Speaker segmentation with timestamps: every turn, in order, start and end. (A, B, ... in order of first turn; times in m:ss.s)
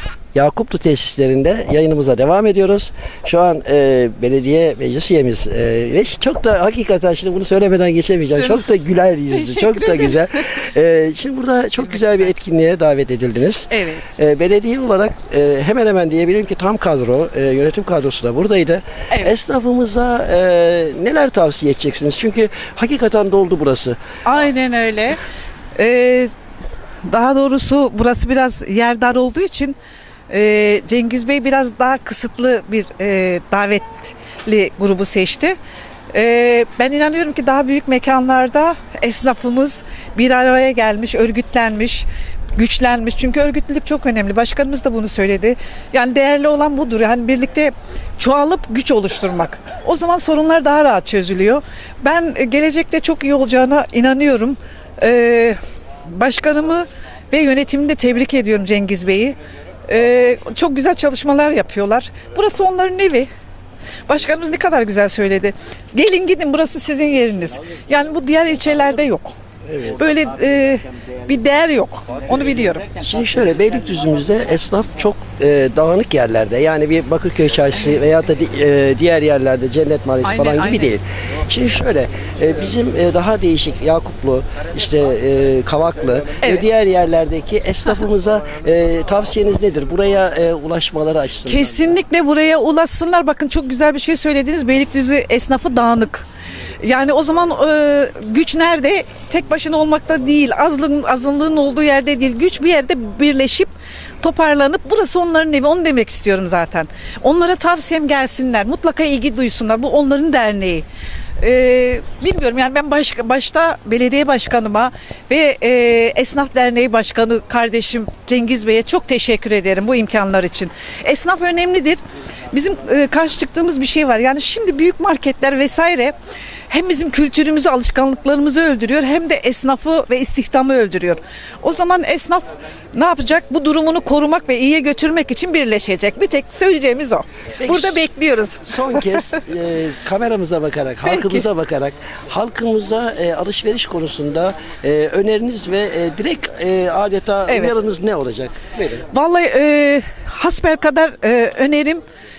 0:00.4-0:24.0 A
0:08.4-0:10.5 B
0:11.8-0:12.3 B
0:13.7-0:14.1 B
0:24.2-0:25.2 B
0:25.8-0:26.3 B
0:27.1-0:29.8 B
0:30.3-0:35.6 B
0:36.1-0:59.4 B
0:59.9-1:03.3 B
1:04.1-1:09.3 B
1:09.7-1:10.0 A
1:09.9-1:12.9 B
1:13.0-1:31.8 A
1:20.2-1:20.9 B
1:31.4-1:36.2 B
1:36.8-1:50.9 B
1:51.4-2:02.0 B
2:02.5-2:06.2 B
2:06.7-2:19.4 B
2:17.6-2:18.0 A
2:18.6-2:29.1 A
2:21.0-2:21.5 B
2:27.5-2:27.7 B
2:29.1-2:32.0 B